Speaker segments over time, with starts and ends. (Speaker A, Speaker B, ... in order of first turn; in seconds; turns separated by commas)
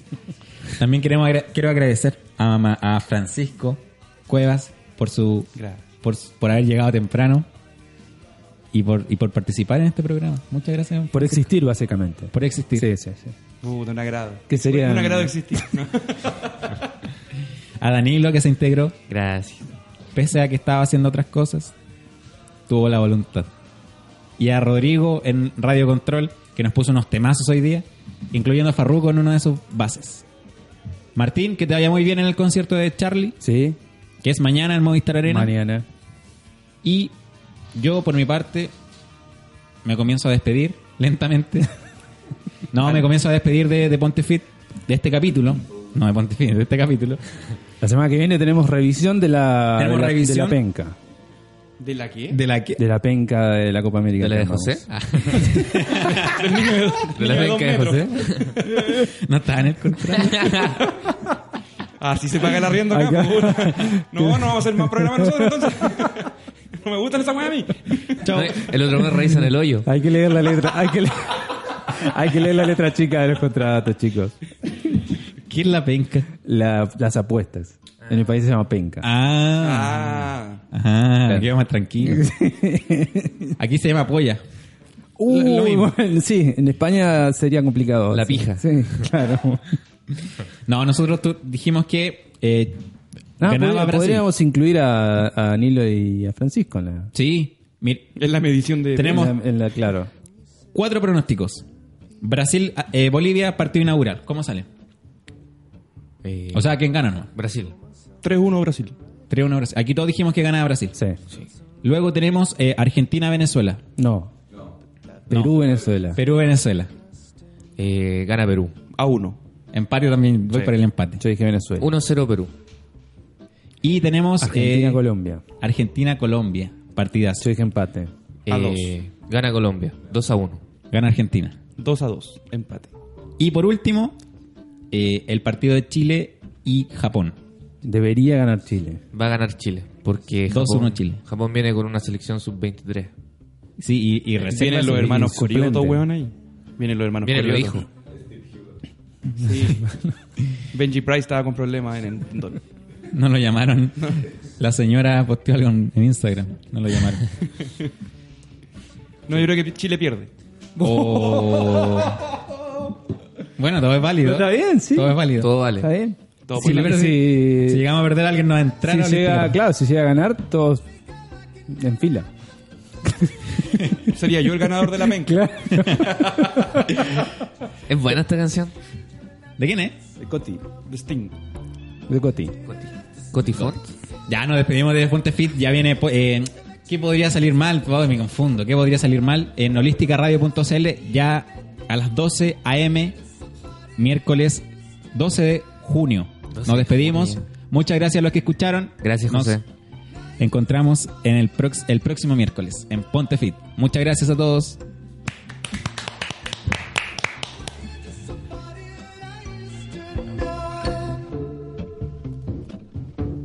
Speaker A: 0.7-5.5, Speaker B: 5.5-5.8, Speaker A: 6.0-7.5, Speaker A: 8.7-11.4, Speaker C: 11.1-13.3, Speaker A: 12.3-12.9, Speaker B: 13.6-16.6, Speaker C: 14.5-15.6, Speaker A: 17.8-19.0, Speaker D: 19.1-19.7, Speaker A: 20.1-21.7, Speaker A: 22.7-23.5, Speaker A: 24.4-30.2, Speaker A: 31.1-33.4, Speaker C: 33.4-33.8, Speaker A: 34.2-35.5, Speaker C: 35.3-35.9, Speaker A: 36.8-37.1, Speaker A: 37.7-38.7, Speaker A: 39.8-41.7, Speaker A: 42.7-47.2, Speaker C: 47.8-51.0, Speaker A: 49.8-50.6, Speaker B: 51.8-52.4, Speaker A: 52.3-52.8, Speaker C: 52.8-54.8, Speaker D: 54.2-55.7, Speaker A: 55.1-56.7, Speaker B: 55.9-59.1, Speaker D: 57.1-58.5, Speaker A: 58.8-60.9, Speaker D: 60.2-60.8, Speaker B: 62.0-66.3, Speaker C: 62.9-65.6, Speaker B: 66.8-68.2, Speaker A: 68.2-69.0, Speaker D: 68.3-69.9, Speaker C: 69.8-74.3, Speaker A: 75.5-76.3, Speaker C: 76.4-79.0, Speaker A: 79.0-82.2, Speaker B: 79.6-80.6, Speaker C: 82.0-83.5, Speaker A: 83.6-84.4, Speaker C: 85.2-89.8, Speaker A: 85.2-85.9, Speaker D: 88.1-88.8, Speaker A: 90.7-92.8, Speaker C: 93.4-97.1, Speaker A: 93.4-94.3, Speaker A: 97.1-98.1, Speaker B: 98.2-99.3, Speaker A: 98.9-99.3, Speaker C: 99.0-100.1, Speaker A: 100.7-101.6, Speaker A: 102.2-104.7, Speaker D: 106.2-106.7, Speaker A: 106.5-107.3, Speaker D: 107.3-107.8, Speaker B: 108.2-109.0, Speaker A: 109.3-110.9, Speaker C: 110.9-111.2, Speaker A: 111.8-113.8, Speaker C: 114.0-114.3, Speaker C: 115.3-116.2, Speaker A: 115.3-115.6, Speaker A: 116.2-116.9, Speaker D: 117.8-118.8, Speaker B: 118.9-119.4, Speaker A: 119.7-121.2, Speaker C: 121.2-121.9, Speaker D: 121.8-122.5, Speaker A: 123.8-125.0, Speaker C: 124.4-125.4, Speaker A: 125.6-127.5, Speaker C: 127.4-128.1, Speaker D: 128.5-130.6, Speaker B: 128.5-128.9, Speaker A: 130.9-131.6, Speaker B: 131.8-132.9, Speaker A: 133.4-134.2, Speaker A: 134.9-137.3, Speaker C: 137.8-139.0, Speaker D: 139.1-143.1, Speaker A: 140.5-141.2, Speaker A: 143.8-145.2, Speaker B: 144.4-147.8, Speaker C: 144.9-146.1, Speaker D: 147.2-147.8, Speaker B: 149.3-149.9, Speaker B: 150.7-152.6, Speaker A: 153.1-157.3, Speaker B: 159.3-160.3, Speaker A: 160.8-162.3, Speaker C: 160.8-162.0, Speaker A: 163.6-165.5, Speaker C: 164.2-165.2, Speaker D: 165.3-165.9, Speaker C: 165.8-167.8, Speaker B: 166.5-167.0, Speaker A: 166.5-169.6, Speaker C: 168.8-170.8, Speaker C: 171.7-172.3, Speaker C: 173.1-173.3, Speaker A: 173.8-174.0, Speaker B: 174.1-175.4, Speaker C: 175.0-176.9, Speaker A: 175.7-176.3, Speaker D: 177.9-178.7, Speaker A: 179.6-180.0, Speaker C: 180.2-180.7, Speaker B: 180.9-181.3, Speaker C: 182.1-182.6, Speaker D: 182.7-183.9, Speaker A: 184.3-193.2, Speaker A: 194.0-199.6, Speaker D: 196.5-197.4, Speaker D: 199.0-199.6, Speaker A: 200.4-204.8